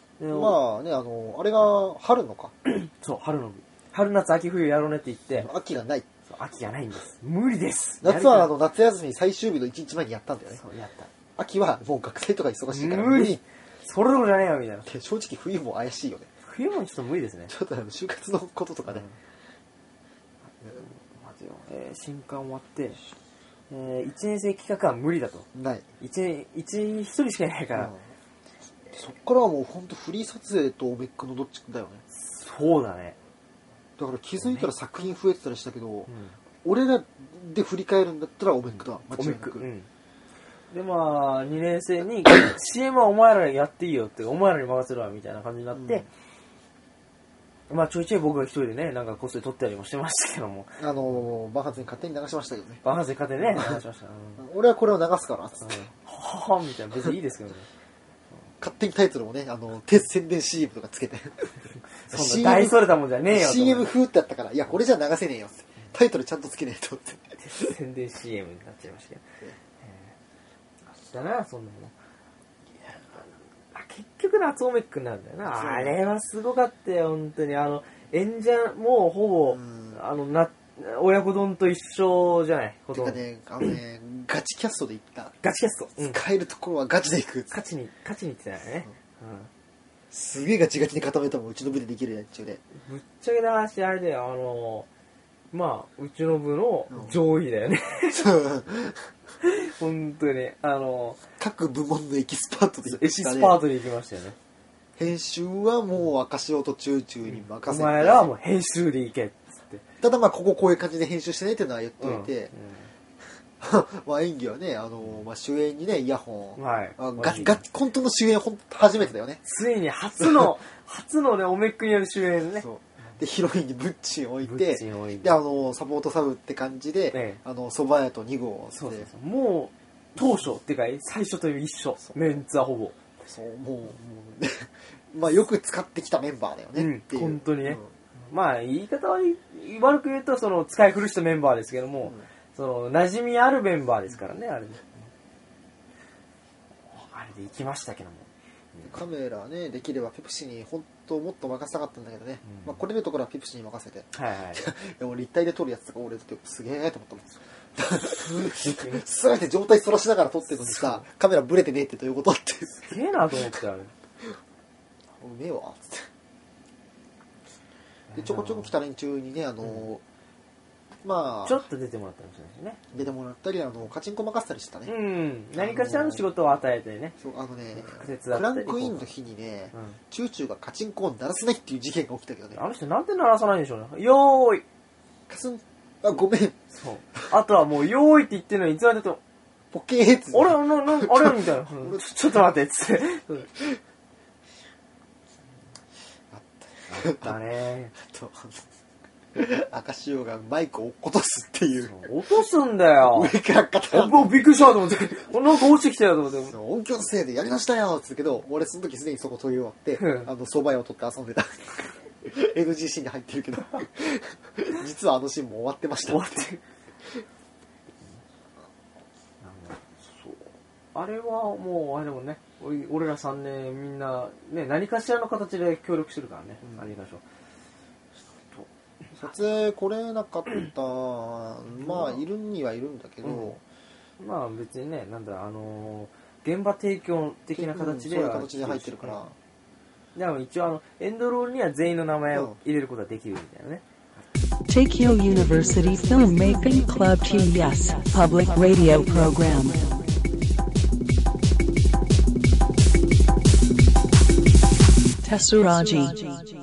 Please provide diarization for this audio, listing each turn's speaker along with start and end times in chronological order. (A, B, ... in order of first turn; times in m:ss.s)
0:00.2-0:00.6 A
0:00.3-0:02.5 B
0:02.6-0:05.5 A
0:05.4-0:06.1 B
0:06.3-0:08.5 A
0:08.0-0:10.6 B
0:10.5-0:11.1 A
0:11.4-0:13.4 B
0:12.7-0:14.9 A
0:14.8-0:16.3 B
0:16.4-0:17.5 A
0:17.5-0:19.1 B
0:20.8-0:23.0 A
0:23.7-0:25.5 A
0:25.6-0:25.8 B
0:26.0-0:27.9 A
0:27.7-0:28.0 B
0:28.9-0:32.0 B
0:32.1-0:33.2 A
0:34.0-0:36.1 B
0:34.4-0:34.7 A
0:36.1-0:36.4 A
0:36.6-0:39.7 B
0:39.2-0:39.9 A
0:40.7-0:46.1 A
0:45.7-0:46.1 B
0:47.7-0:50.8 A
0:50.8-0:52.8 B
0:52.8-0:54.4 A
0:53.5-0:53.8 B
0:54.4-0:55.9 B
0:55.6-0:57.7 A
0:58.6-1:07.7 B
1:02.1-1:03.9 A
1:07.4-1:09.2 A
1:09.8-1:10.1 A
1:10.9-1:11.9 A
1:13.2-1:23.2 A
1:15.4-1:16.0 B
1:19.6-1:20.0 B
1:22.9-1:25.4 B
1:25.4-1:26.2 A
1:26.0-1:27.5 B
1:27.5-1:29.5 A
1:30.1-1:32.6 B
1:32.8-1:34.9 A
1:35.5-1:38.3 A
1:38.1-1:39.1 B
1:39.4-1:41.2 A
1:41.4-1:43.6 B
1:42.8-1:44.4 A
1:45.0-1:48.3 B
1:47.3-1:49.8 A
1:50.0-1:52.5 B
1:52.0-1:52.9 A
1:53.6-1:59.4 B
1:56.6-1:57.6 A
1:59.4-2:02.7 A
2:00.2-2:00.5 B
2:02.6-2:09.1 B
2:04.4-2:05.4 A
2:07.1-2:07.4 A
2:08.8-2:13.0 A
2:13.2-2:18.3 B
2:16.8-2:24.9 A
2:26.9-2:29.0 A
2:28.8-2:43.3 B
2:32.4-2:32.8 A
2:34.1-2:34.7 A
2:38.0-2:39.0 A
2:40.6-2:41.1 A
2:42.8-2:43.9 A
2:45.2-2:46.1 B
2:48.1-2:48.7 A
2:48.2-2:50.0 B
2:51.0-2:51.6 B
2:51.4-2:52.9 A
2:52.9-2:54.9 B
2:54.9-2:57.2 A
2:55.6-2:56.3 B
2:57.2-3:02.6 B
2:57.7-2:59.1 A
2:59.7-3:00.0 A
3:02.5-3:04.6 A
3:05.3-3:06.6 B
3:06.7-3:09.2 A
3:09.7-3:12.0 B
3:10.3-3:13.5 A
3:16.3-3:17.4 B
3:16.9-3:18.0 A
3:18.0-3:18.7 B
3:19.3-3:22.0 B
3:21.8-3:23.3 A
3:23.1-3:25.3 B
3:23.9-3:26.5 A
3:26.5-3:36.5 B
3:30.0-3:30.3 A
3:36.1-3:36.6 A
3:39.4-3:47.2 A
3:46.6-3:46.9 B
3:49.1-3:53.6 B
3:51.8-3:52.2 A
3:53.2-3:53.5 A
3:54.2-3:59.2 A
3:57.6-3:59.4 B
4:00.2-4:03.8 A
4:02.3-4:02.6 B
4:04.7-4:10.0 C
4:15.2-4:16.4 C